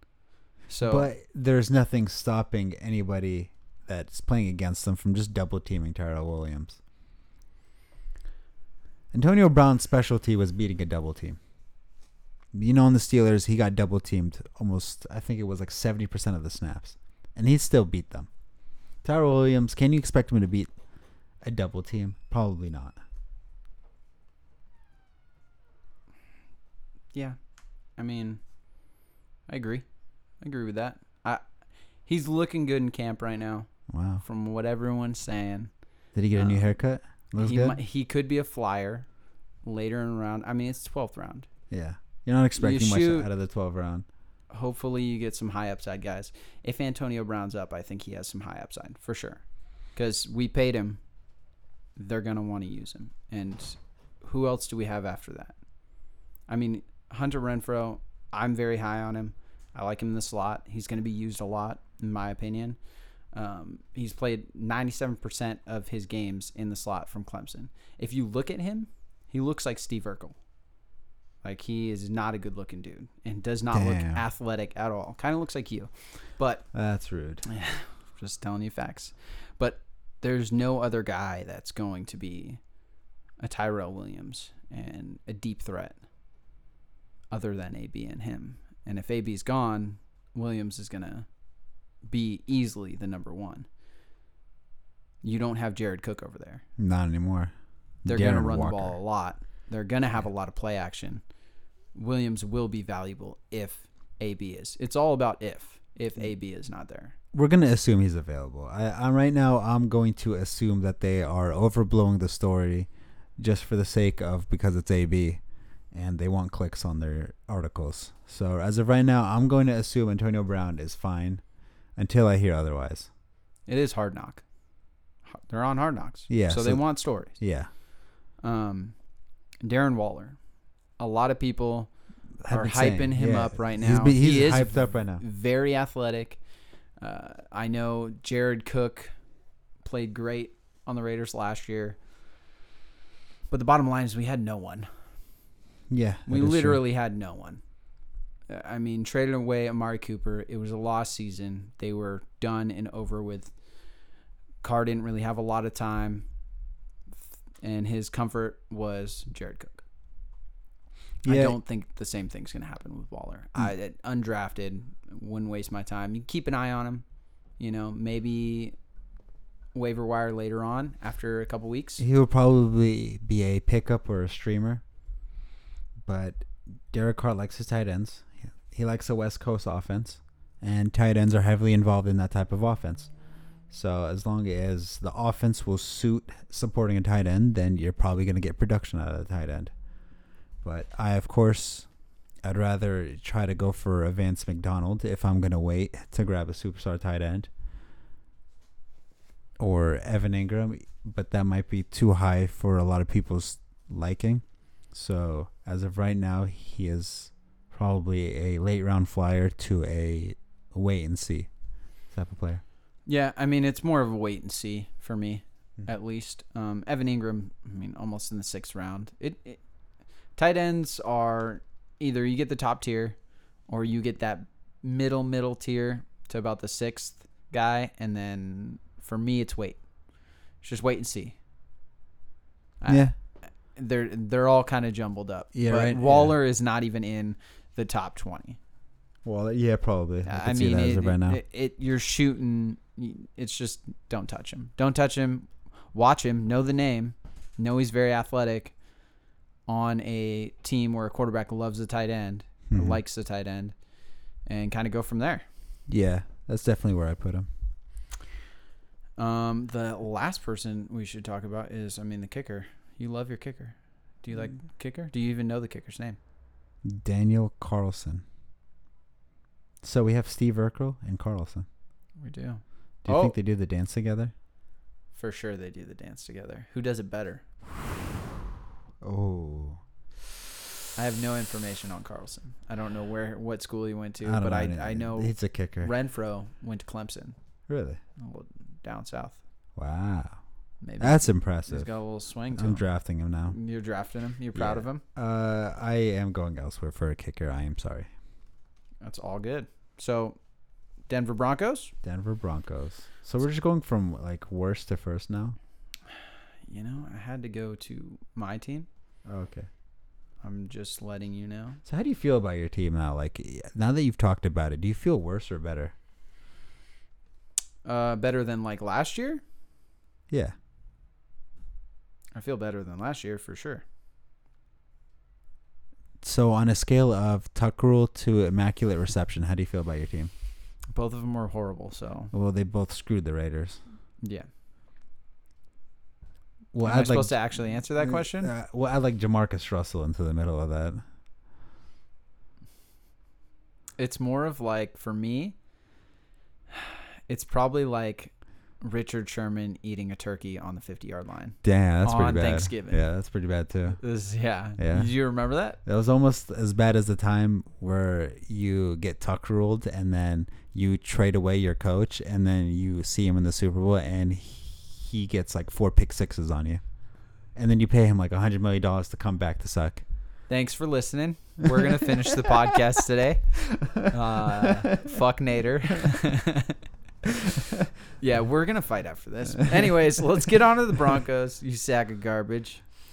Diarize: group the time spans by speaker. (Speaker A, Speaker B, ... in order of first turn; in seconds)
Speaker A: 0.7-1.1, 28.0-28.4, 29.5-29.8, 30.4-31.4, 32.0-33.7, 34.2-35.7, 36.3-36.6, 37.4-39.0, 39.6-41.5, 42.6-43.3, 44.5-49.4, 50.0-51.0, 52.0-55.5, 56.5-62.8, 63.3-70.3, 71.4-76.7, 77.5-82.6, 83.4-86.0, 87.3-91.3, 92.0-93.7, 95.2-96.6, 98.0-101.2, 101.9-107.1, 123.7-124.4, 125.3-127.3, 128.4-128.9, 129.6-130.4, 131.0-131.9, 132.5-136.4, 137.0-139.1, 139.8-142.0, 143.5-144.9, 146.3-147.6, 148.5-153.5, 154.6-156.2, 157.6-159.8, 161.2-167.0, 167.6-168.7, 169.7-172.0, 213.1-219.6, 220.3-223.2, 223.7-229.8, 230.6-231.3, 232.8-238.6, 240.2-248.7, 249.7-253.7, 254.4-255.4, 259.2-266.2, 272.2-273.3, 275.1-277.4, 280.9-287.3, 288.2-289.4, 290.8-292.8, 293.5-295.0, 299.0-300.4, 301.1-301.9, 306.7-308.9, 310.4-311.8, 317.8-319.4, 322.3-323.8, 330.9-332.3, 334.2-334.5, 336.8-338.5, 344.0-345.5, 346.7-353.0, 354.0-355.8, 370.5-376.8, 378.2-382.8
Speaker B: 0.8-6.8, 9.1-11.4, 12.5-18.3, 19.0-20.7, 21.4-23.0, 33.9-34.2, 36.1-37.8, 41.7-44.0, 73.7-74.2, 76.7-77.4, 96.8-97.5, 98.0-99.0, 107.3-115.4, 115.9-121.4, 122.0-123.1, 126.3-127.7, 132.4-135.2, 145.9-146.8, 161.2-161.6, 172.0-174.8, 176.0-183.1, 183.7-189.7, 190.6-191.9, 192.4-197.5, 199.6-211.5, 212.1-212.6, 232.9-233.1, 235.5-236.3, 239.2-241.4, 252.7-253.0, 255.9-257.5, 266.8-268.2, 269.8-271.6, 273.0-274.3, 279.0-279.8, 284.2-285.9, 287.7-288.0, 289.8-290.4, 291.0-291.9, 292.5-293.6, 294.5-298.1, 302.0-305.6, 309.2-309.7, 311.8-315.9, 320.3-320.5, 326.2-330.3, 332.3-333.8, 336.7-341.0, 351.6-354.0, 354.8-355.1, 355.8-366.8, 367.5-370.0